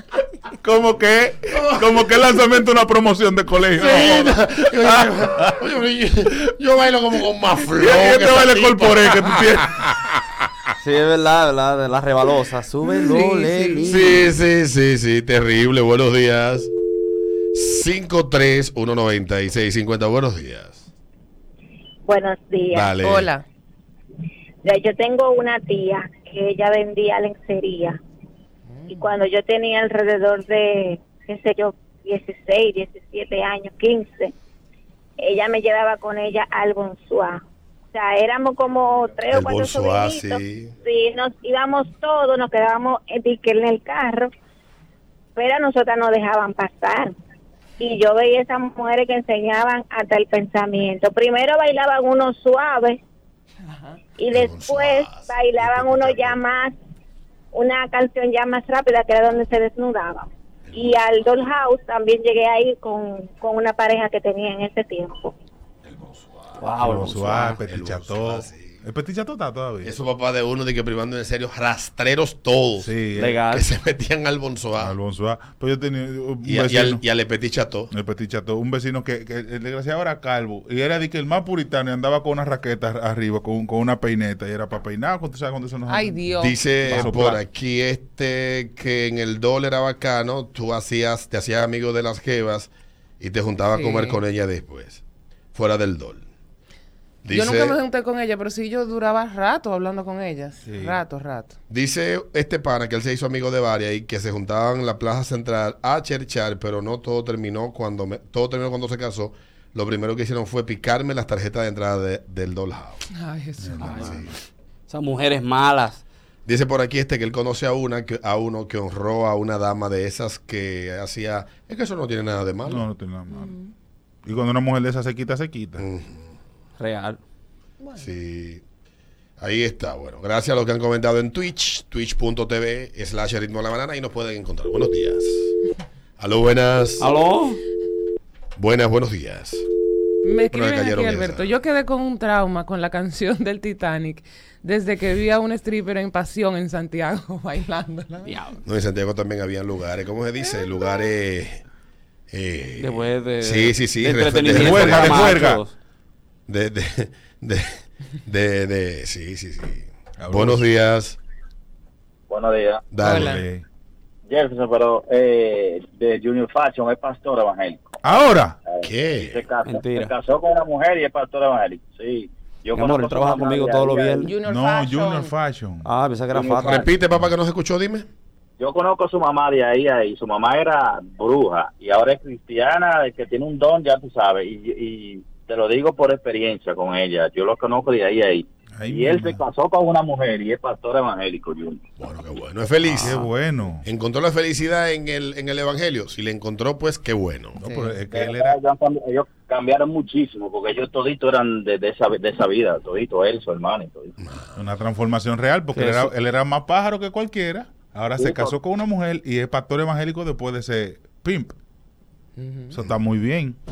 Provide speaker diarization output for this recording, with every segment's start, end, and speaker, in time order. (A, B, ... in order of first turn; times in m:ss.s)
0:00.5-0:05.6 A
0:01.5-0:02.0 B
0:03.8-0:10.1 B
0:07.7-0:09.7 A
0:10.8-0:14.2 C
0:12.8-0:14.2 D
0:13.8-0:16.7 B
0:17.5-0:20.9 B
0:22.0-0:22.9 E
0:22.7-0:23.3 B
0:23.0-0:23.5 D
0:24.6-0:28.0 E
0:28.7-0:29.2 D
0:28.9-0:34.4 E
0:35.2-0:44.3 E
0:39.3-0:40.8 B
0:45.4-0:47.1 E
0:47.8-0:53.0 E
0:53.7-0:54.0 D
0:54.2-0:56.8 E
0:54.3-0:56.4 B
0:57.5-1:05.4 E
1:00.6-1:01.2 B
1:05.8-1:06.6 B
1:06.6-1:07.6 C
1:06.8-1:09.9 A
1:07.6-1:08.8 B
1:09.8-1:12.9 B
1:12.8-1:13.4 A
1:13.2-1:13.6 C
1:13.5-1:14.9 B
1:14.8-1:17.0 A
1:16.4-1:17.9 B
1:17.9-1:26.2 A
1:25.9-1:26.6 D
1:26.4-1:35.0 B
1:26.8-1:27.2 C
1:26.9-1:27.4 A
1:33.7-1:34.2 D
1:35.5-1:36.3 B
1:37.2-1:37.8 B
1:37.3-1:41.6 D
1:40.6-1:41.0 A
1:41.7-1:53.0 B
1:53.1-1:54.1 D
1:53.6-1:54.4 A
1:53.8-1:54.3 C
1:53.9-1:54.3 B
1:54.9-1:56.0 C
1:56.5-2:02.9 B
2:02.7-2:03.5 A
2:03.3-2:03.7 D
2:04.2-2:05.8 A
2:05.8-2:06.3 B
2:06.8-2:07.2 C
2:07.8-2:08.1 D
2:08.0-2:08.6 B
2:09.4-2:15.5 B
2:16.2-2:17.1 B
2:17.0-2:17.6 C
2:18.6-2:19.6 B
2:20.2-2:28.4 D
2:20.5-2:21.5 B
2:28.2-2:28.6 C
2:28.6-2:31.6 B
2:32.3-2:35.5 B
2:32.8-2:35.7 C
2:34.5-2:35.6 A
2:36.5-2:41.2 B
2:40.2-2:40.6 A
2:42.3-2:42.8 F
2:42.9-2:43.4 B
2:43.0-2:43.4 D
2:43.0-2:43.6 A
2:44.3-2:48.0 F
2:48.0-2:48.6 A
2:48.6-2:54.2 F
2:48.8-2:49.5 B
2:49.6-2:50.1 C
2:52.7-2:54.4 C
2:54.2-2:55.3 D
2:54.4-2:55.9 A
2:55.8-2:56.9 C
2:56.3-2:56.8 F
2:56.6-2:58.1 B
2:58.6-3:11.8 F
3:08.8-3:09.4 A
3:12.0-3:13.3 B
3:12.8-3:13.9 A
3:13.8-3:17.6 B
3:17.6-3:18.6 A
3:17.6-3:18.0 D
3:18.0-3:24.1 F
3:24.2-3:24.6 B
3:24.6-3:31.6 A
3:25.7-3:26.1 C
3:28.2-3:28.5 F
3:32.4-3:32.8 D
3:32.7-3:33.6 A